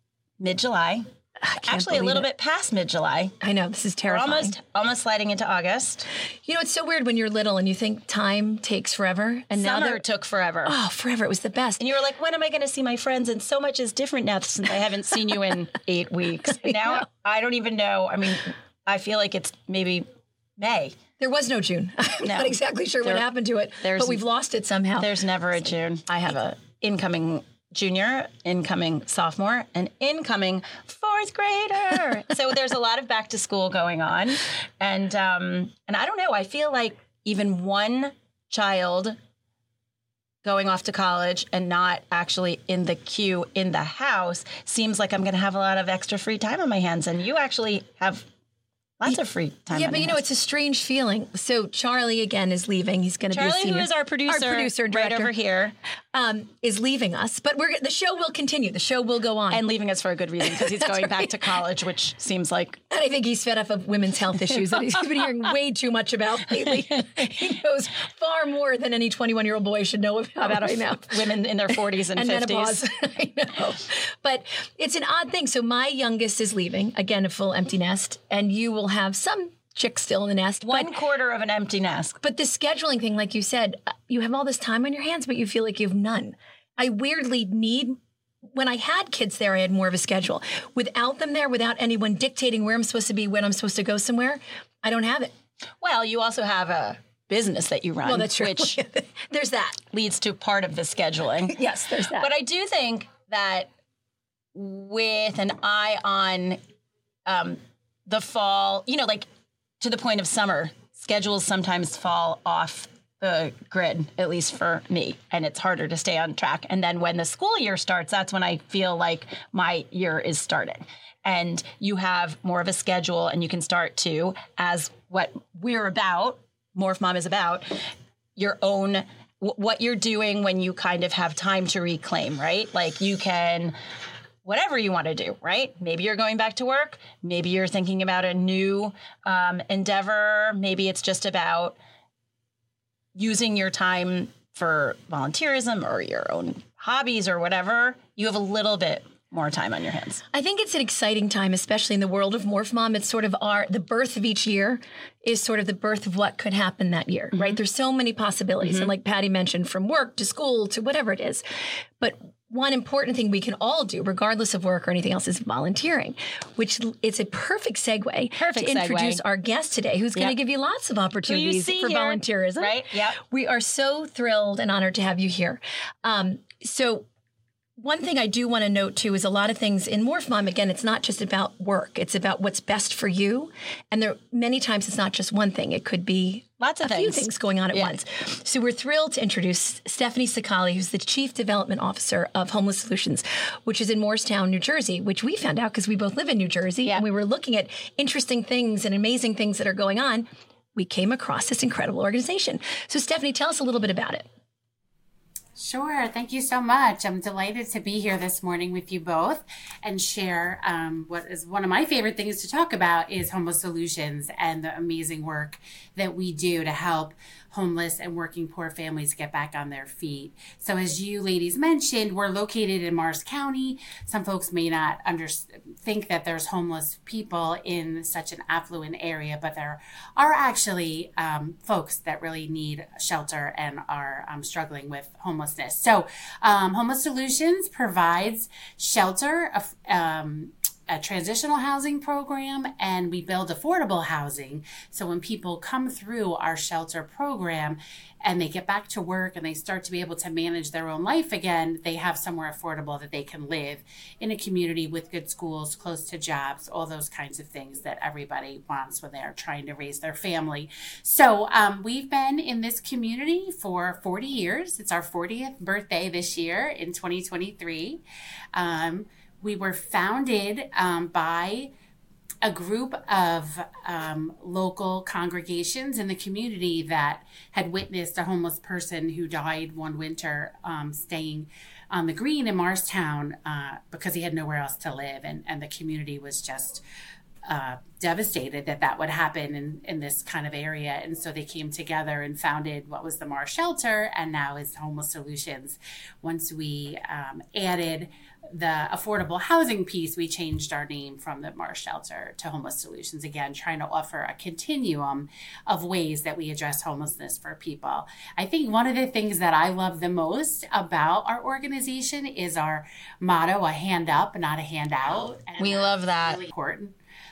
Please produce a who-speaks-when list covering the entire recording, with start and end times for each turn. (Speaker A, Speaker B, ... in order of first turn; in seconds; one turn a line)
Speaker A: 0.4-1.1
Speaker B: 1.4-2.3
Speaker A: 1.6-3.3
Speaker B: 3.4-4.5
Speaker A: 4.1-6.0
Speaker B: 6.5-10.0
Speaker A: 9.6-10.8
Speaker B: 10.6-11.8
Speaker A: 11.8-20.1
Speaker A: 20.6-20.9
Speaker B: 21.2-25.1
Speaker A: 22.2-23.2
Speaker A: 23.8-24.2
Speaker A: 25.0-39.2
Speaker A: 40.4-48.2
Speaker A: 49.0-50.2
Speaker B: 49.7-55.3
Speaker A: 53.3-55.7
Speaker B: 56.1-59.6
Speaker A: 59.5-62.8
Speaker B: 60.4-61.2
Speaker B: 62.9-71.2
Speaker A: 70.4-72.8
Speaker B: 72.1-80.9
Speaker A: 80.6-82.2
Speaker B: 82.2-88.0
Speaker B: 88.5-95.3
Speaker A: 95.8-98.8
Speaker B: 98.0-99.8
Speaker A: 99.9-101.6
Speaker B: 101.5-102.3
Speaker A: 102.1-103.7
Speaker A: 104.5-106.6
Speaker A: 107.2-109.3
Speaker A: 109.8-127.7
Speaker A: 128.3-133.8
Speaker A: 134.4-141.8
Speaker A: 143.2-150.2
Speaker B: 150.3-161.4
Speaker A: 157.3-157.6
Speaker A: 158.6-158.9
Speaker B: 162.0-177.1
Speaker A: 168.3-169.2
Speaker A: 171.3-173.2
Speaker B: 177.8-204.2
Speaker A: 186.6-187.9
Speaker C: 205.6-268.0
Speaker C: 268.6-271.7
Speaker C: 272.4-286.8
Speaker C: 287.5-316.9
Speaker A: 315.6-316.4